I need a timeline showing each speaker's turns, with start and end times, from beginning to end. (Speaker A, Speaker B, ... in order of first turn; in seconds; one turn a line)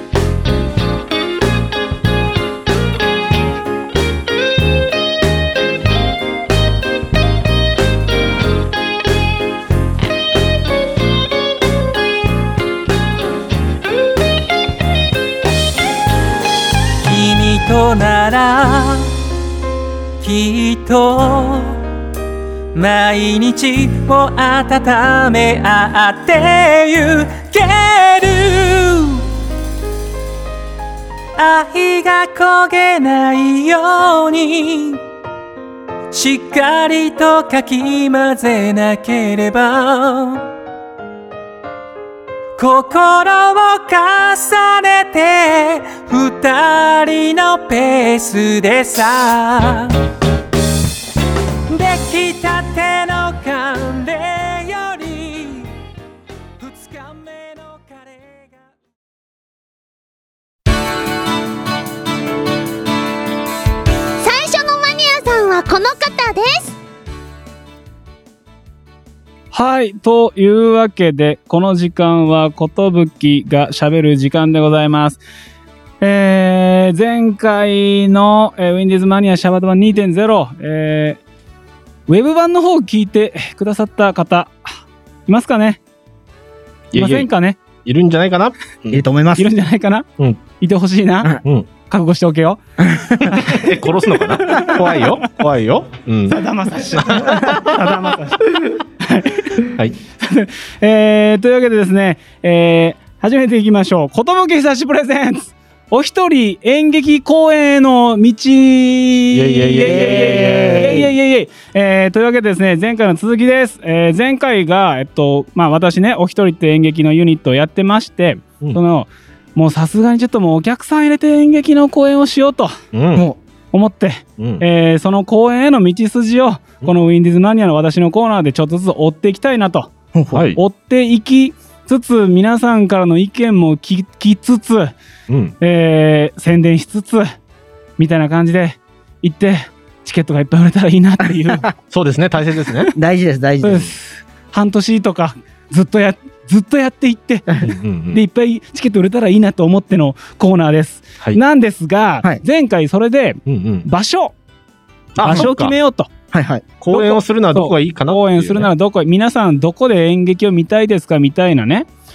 Speaker A: 17.0-19.1
Speaker A: 20.2-21.8
Speaker A: 22.7-29.3
Speaker A: 31.4-35.0
Speaker A: 36.1-40.5
Speaker A: 42.6-50.0
Speaker A: 51.7-55.7
Speaker A: 56.6-58.6
Speaker B: 64.2-66.8
Speaker C: 69.5-75.2
Speaker C: 76.0-81.2
Speaker C: 82.1-84.6
Speaker C: 85.3-85.8
Speaker D: 86.9-87.3
Speaker C: 86.9-87.6
Speaker D: 87.8-89.0
Speaker E: 88.9-89.5
Speaker C: 89.4-92.6
Speaker D: 91.4-91.7
Speaker E: 92.8-93.5
Speaker D: 93.2-96.4
Speaker C: 94.4-95.1
Speaker C: 96.3-122.8
Speaker D: 96.9-98.1
Speaker D: 99.7-100.0
Speaker D: 109.3-111.1
Speaker E: 109.8-111.1
Speaker D: 122.9-123.2
Speaker C: 123.7-129.9
Speaker D: 124.4-124.7
Speaker E: 130.1-130.4
Speaker D: 130.3-130.6
Speaker C: 130.6-134.9
Speaker D: 135.3-135.6
Speaker C: 135.6-137.3
Speaker C: 138.0-141.7
Speaker D: 141.9-142.9
Speaker E: 142.9-143.9
Speaker C: 143.6-147.6
Speaker D: 147.6-148.2
Speaker C: 148.1-154.3
Speaker D: 153.5-153.9
Speaker D: 155.2-155.8
Speaker C: 155.2-156.1
Speaker E: 156.3-156.7
Speaker D: 156.8-158.7
Speaker C: 156.9-161.9